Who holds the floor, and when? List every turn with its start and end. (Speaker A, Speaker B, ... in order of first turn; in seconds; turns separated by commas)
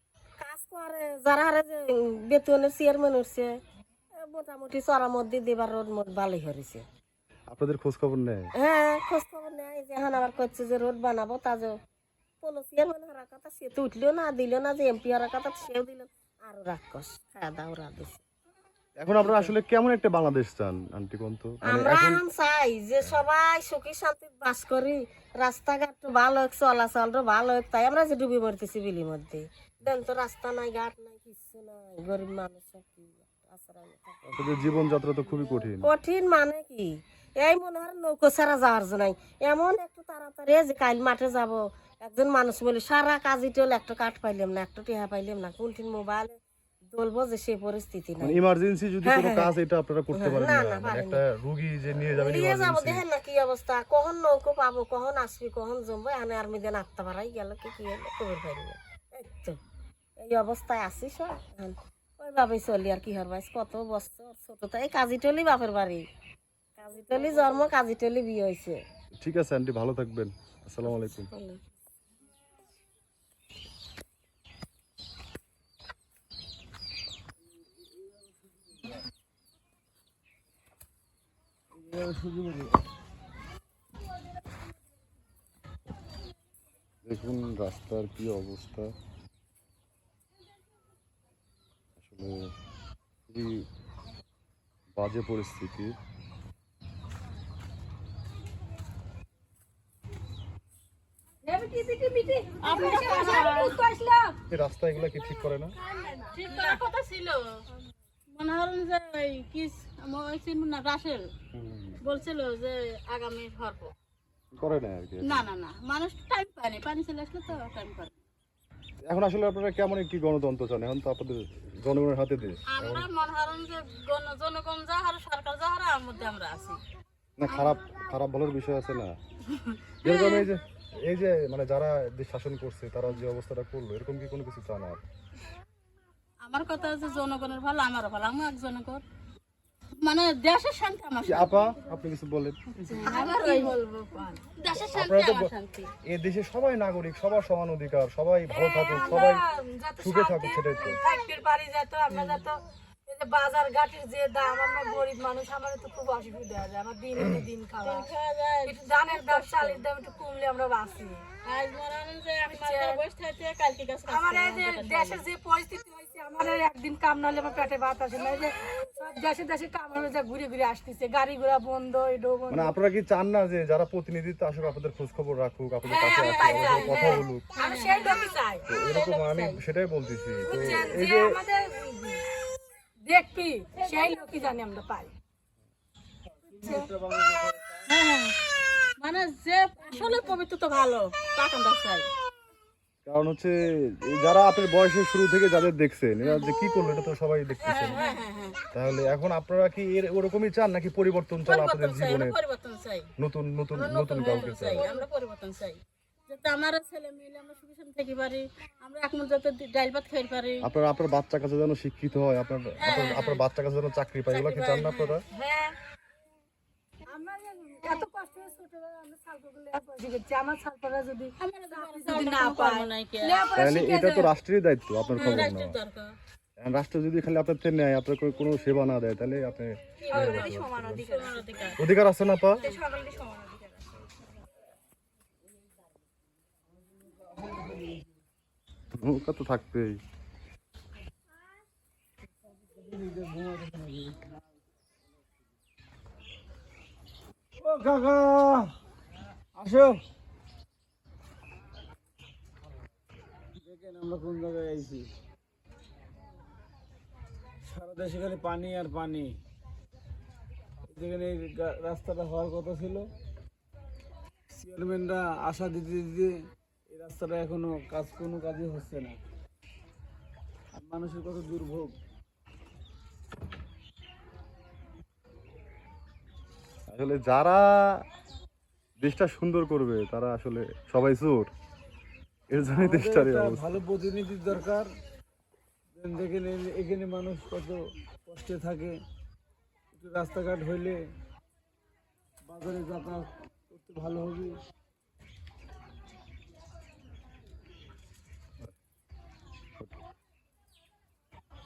Speaker A: 0.4-3.5, Speaker A: 4.2-6.8, Speaker B: 7.5-8.5, Speaker A: 8.6-11.8, Speaker A: 12.4-18.2, Speaker B: 19.0-22.2, Speaker A: 19.2-19.5, Speaker A: 21.6-46.4, Speaker B: 23.0-23.3, Speaker B: 34.3-35.9, Speaker A: 46.9-48.4, Speaker B: 48.2-53.0, Speaker A: 49.0-49.5, Speaker A: 50.1-51.2, Speaker A: 52.1-59.6, Speaker A: 60.2-66.0, Speaker A: 66.8-68.8, Speaker B: 69.2-71.3, Speaker A: 70.8-71.6, Speaker C: 81.7-82.8, Speaker B: 87.0-88.9, Speaker B: 92.0-92.5, Speaker B: 93.3-93.7, Speaker B: 94.9-95.9, Speaker D: 101.4-104.4, Speaker E: 102.6-103.8, Speaker B: 104.5-105.7, Speaker D: 106.0-106.8, Speaker E: 106.3-107.6, Speaker E: 108.3-111.3, Speaker B: 111.5-112.0, Speaker E: 112.0-113.9, Speaker B: 114.5-115.5, Speaker E: 115.2-118.1, Speaker B: 119.0-123.1, Speaker E: 122.7-126.8, Speaker B: 127.4-129.2, Speaker E: 127.5-127.8, Speaker E: 129.5-130.5, Speaker B: 130.0-135.0, Speaker E: 136.4-139.0, Speaker E: 140.0-141.7, Speaker B: 141.3-142.6, Speaker D: 142.8-143.8, Speaker E: 142.9-145.9, Speaker B: 144.9-145.5, Speaker B: 146.1-149.4, Speaker D: 148.5-158.1, Speaker B: 150.0-151.0, Speaker E: 157.8-159.8, Speaker D: 158.7-161.2, Speaker E: 161.4-165.2, Speaker D: 162.4-163.1, Speaker D: 164.1-172.7, Speaker B: 172.5-177.5, Speaker D: 175.8-178.7, Speaker E: 176.2-179.6, Speaker B: 178.7-181.4, Speaker D: 180.4-182.2, Speaker D: 183.1-185.1, Speaker C: 186.4-187.8, Speaker D: 186.6-186.9, Speaker E: 187.9-188.3, Speaker E: 189.0-192.1, Speaker B: 193.0-198.0, Speaker E: 196.2-196.5, Speaker E: 197.6-198.6, Speaker B: 198.7-202.4, Speaker E: 201.5-203.1, Speaker B: 203.2-205.0, Speaker E: 203.7-210.6, Speaker B: 210.6-215.2, Speaker E: 212.8-213.4, Speaker E: 214.3-215.7, Speaker D: 217.1-224.3, Speaker E: 221.4-223.5, Speaker B: 223.6-225.8, Speaker E: 225.2-226.2, Speaker B: 226.6-231.1, Speaker E: 230.0-231.8, Speaker D: 230.1-231.7, Speaker B: 231.8-232.6, Speaker D: 232.6-233.8, Speaker C: 237.4-238.0, Speaker B: 238.9-240.0, Speaker C: 242.7-244.3, Speaker C: 247.6-248.8, Speaker C: 249.5-250.0, Speaker C: 253.6-255.1, Speaker C: 257.6-259.4, Speaker C: 260.9-263.1, Speaker C: 264.5-266.3, Speaker C: 266.9-269.2, Speaker C: 270.7-271.9, Speaker B: 276.9-278.0, Speaker B: 279.0-281.5, Speaker B: 282.5-283.8, Speaker C: 282.7-284.9, Speaker C: 285.9-289.0, Speaker C: 289.9-291.0, Speaker C: 292.5-294.6